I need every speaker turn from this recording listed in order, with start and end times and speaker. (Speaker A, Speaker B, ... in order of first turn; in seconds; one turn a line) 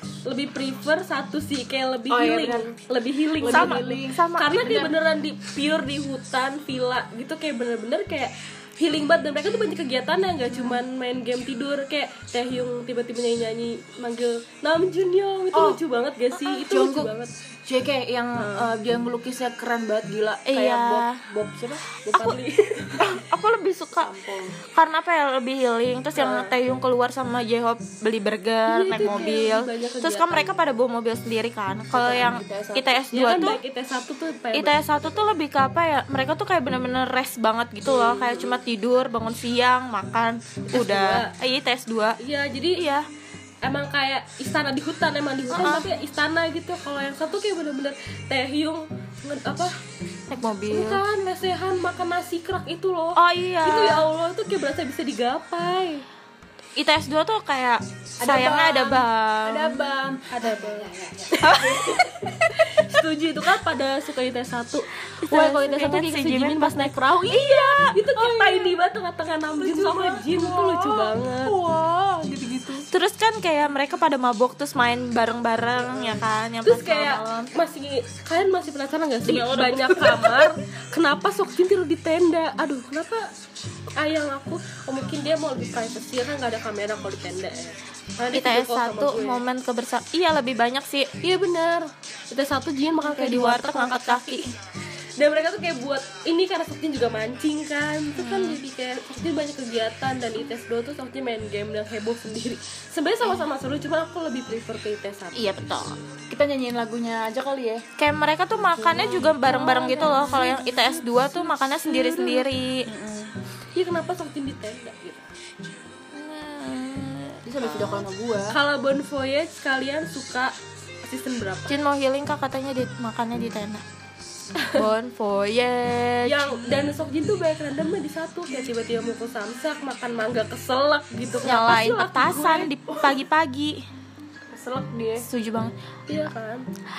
Speaker A: 0.3-17.4
Speaker B: 2.1-2.7
Speaker B: 3.4-4.9
Speaker C: 3.5-4.8
Speaker B: 15.5-15.8
Speaker B: 16.7-17.1
Speaker B: 17.6-21.8
Speaker A: 18.4-18.7
Speaker C: 20.5-21.2
Speaker A: 22.0-23.0
Speaker C: 23.0-24.1
Speaker B: 24.0-24.6
Speaker C: 24.6-33.6
Speaker A: 26.1-26.6
Speaker A: 28.7-30.6
Speaker B: 31.9-33.0
Speaker A: 33.1-35.2
Speaker C: 34.5-42.2
Speaker A: 37.9-38.6
Speaker A: 40.7-41.3
Speaker A: 42.2-42.8
Speaker C: 42.8-43.0
Speaker A: 43.6-49.8
Speaker C: 45.5-45.9
Speaker C: 50.3-51.0
Speaker A: 50.7-56.0
Speaker C: 53.2-54.1
Speaker C: 56.8-59.9
Speaker B: 58.2-62.6
Speaker A: 60.3-71.6
Speaker C: 61.4-61.9
Speaker C: 65.3-68.0
Speaker B: 68.1-68.7
Speaker B: 69.6-72.9
Speaker C: 72.9-77.5
Speaker B: 75.9-76.2
Speaker A: 76.6-83.3
Speaker C: 79.3-80.1
Speaker B: 79.3-80.5
Speaker A: 84.0-89.4
Speaker C: 88.3-91.1
Speaker A: 91.2-94.5
Speaker C: 93.2-94.5
Speaker A: 95.2-105.5
Speaker C: 98.2-98.6
Speaker C: 105.3-105.9
Speaker B: 106.3-107.8
Speaker C: 108.0-112.9
Speaker B: 108.8-113.3
Speaker A: 113.8-115.2
Speaker C: 116.1-118.0
Speaker B: 117.5-118.6
Speaker A: 118.5-121.8
Speaker C: 121.7-123.8
Speaker A: 124.6-124.8
Speaker C: 124.8-126.6
Speaker A: 126.2-133.2
Speaker C: 131.4-133.8
Speaker B: 134.5-135.3
Speaker C: 135.2-135.7
Speaker A: 136.1-136.7